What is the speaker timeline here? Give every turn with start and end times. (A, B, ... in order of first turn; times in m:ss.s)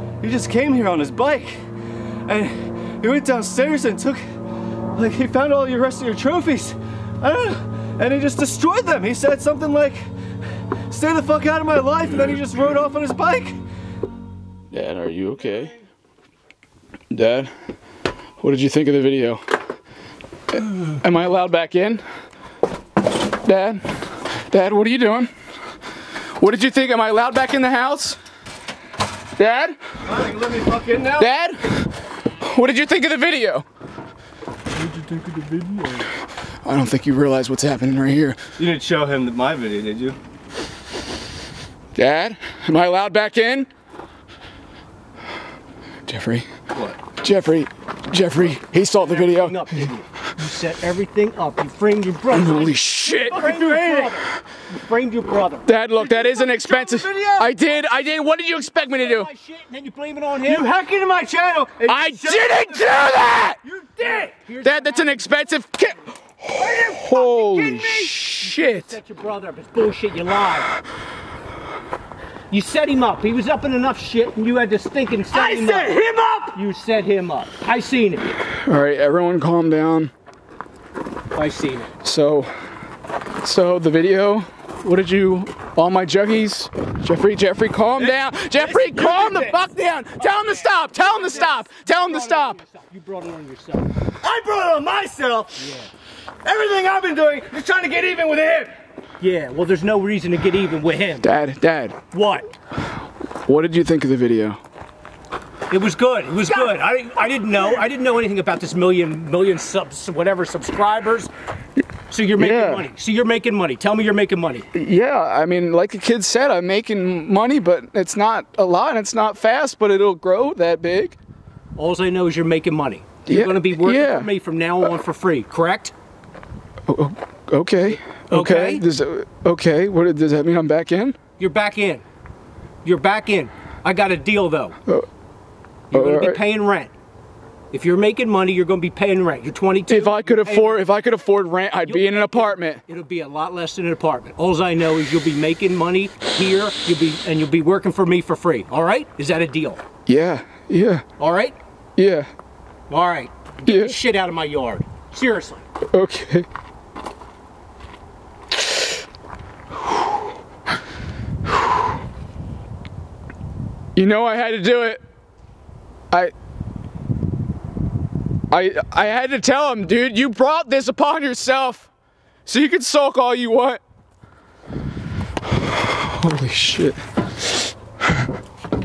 0:00.2-0:01.6 A
0:02.3-0:04.2 A
0:05.0-0:10.0 A
0:10.9-0:13.6 A
0:14.7-0:15.7 B
0:17.1-0:17.5 B
0:18.4-0:19.4 B
0:21.0-0:22.0 B
0:23.4-0:23.9 B
0:24.5-0:25.3 B
0:26.4-0:28.2 B
0:29.4-0:29.8 B
0:30.1-0:31.3 A
0:31.2-0:33.7 B
0:34.7-0:36.1 A
0:36.6-0:38.4 B
0:38.6-0:40.2 A
0:42.0-0:43.7 B
0:46.1-0:46.5 B
0:47.1-0:49.6 B
0:48.6-0:55.7 C
0:52.3-0:53.6 B
0:53.5-0:54.1 A
0:55.7-0:59.3 B
0:56.0-0:57.5 A
0:58.9-1:00.7 C
1:00.4-1:02.4 A
1:01.9-1:03.6 B
1:01.9-1:03.0 C
1:03.6-1:05.3 C
1:04.6-1:09.0 B
1:06.6-1:10.7 C
1:12.5-1:16.0 C
1:16.5-1:18.4 C
1:18.6-1:20.1 B
1:21.4-1:21.9 C
1:22.0-1:22.5 B
1:23.4-1:32.6 B
1:28.0-1:29.6 A
1:30.2-1:34.0 C
1:34.2-1:35.6 A
1:35.6-1:35.9 C
1:36.4-1:38.7 A
1:39.2-1:41.3 C
1:41.2-1:42.0 B
1:42.1-1:42.5 C
1:43.5-1:44.6 B
1:45.7-1:51.3 C
1:52.1-1:54.7 C
1:52.4-1:52.9 B
1:54.7-2:01.2 B
2:01.8-2:05.9 C
2:03.3-2:04.9 B
2:06.9-2:11.2 B
2:07.9-2:08.8 C
2:11.4-2:12.0 C
2:12.8-2:14.8 C
2:15.9-2:16.9 C
2:15.9-2:16.4 B
2:17.7-2:20.9 C
2:19.9-2:22.8 B
2:21.8-2:29.8 C
2:30.1-2:31.0 B
2:31.2-2:31.6 C
2:32.0-2:32.3 B
2:32.9-2:35.6 C
2:33.7-2:34.0 B
2:35.9-2:36.5 B
2:44.0-2:45.0 B
2:48.5-2:51.9 B
2:52.5-2:53.8 B
2:56.0-2:57.0 B